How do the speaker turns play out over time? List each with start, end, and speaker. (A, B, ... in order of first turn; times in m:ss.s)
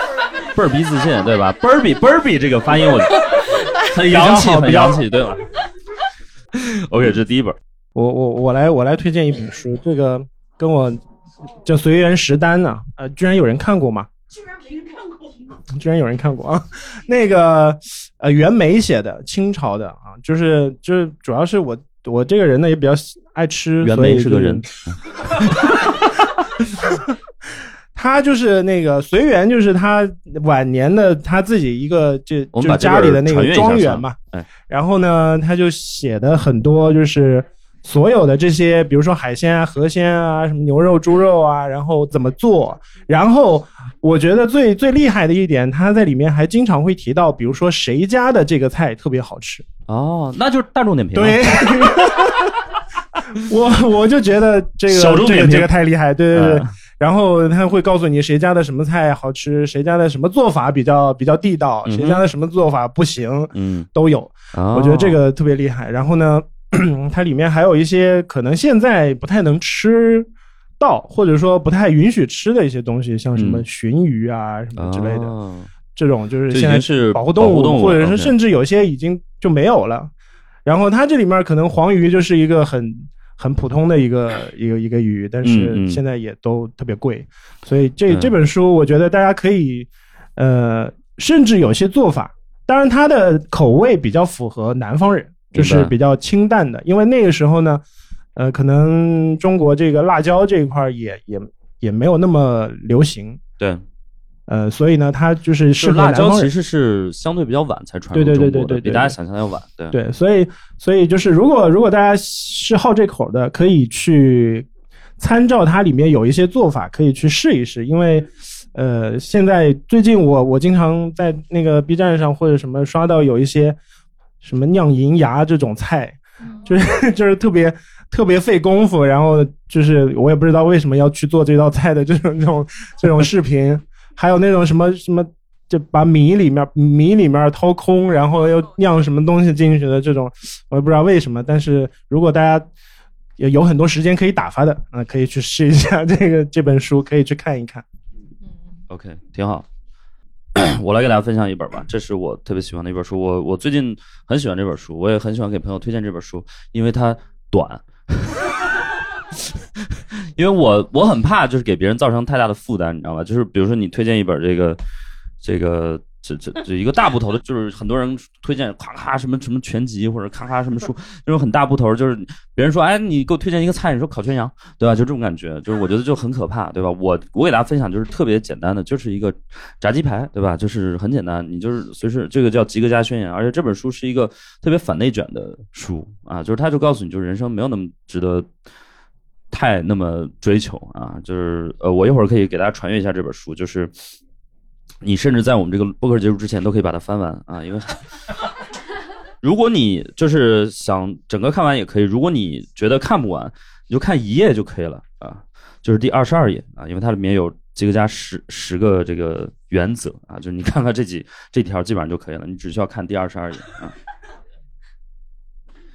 0:00.6-0:05.4 A
0:04.1-0:05.0 B
0:06.6-0:07.6 A
0:08.0-0:11.0 B
0:11.6-0:14.1 B
0:15.7-0:24.7 B
0:23.8-0:25.4 A
0:25.6-0:25.9 B
0:26.8-0:27.1 B
0:28.0-0:34.2 B
0:32.5-0:34.5 A
0:34.7-0:49.7 B
0:49.9-0:51.7 A
0:51.1-0:52.6 B
0:53.4-1:15.4 B
0:54.9-0:55.7 A
0:56.3-0:56.7 A
1:01.9-1:02.2 A
1:03.5-1:03.9 A
1:04.5-1:05.2 A
1:13.4-1:13.6 A
1:14.8-1:15.7 A
1:16.0-1:20.1 B
1:16.5-1:18.3 A
1:20.6-1:37.8 B
1:25.4-1:26.0 A
1:35.6-1:35.9 A
1:38.4-1:43.4 B
1:44.5-1:46.5 B
1:45.8-1:50.0 A
1:48.1-1:49.2 B
1:49.9-1:54.7 B
1:55.2-2:03.8 B
2:04.4-2:22.7 B
2:23.4-2:27.8 B
2:28.9-2:29.7 A
2:30.6-2:38.6 A
2:40.4-2:44.8 A
2:45.4-3:08.5 A
3:09.5-3:13.9 A
3:15.0-3:18.0 A
3:19.4-3:34.0 A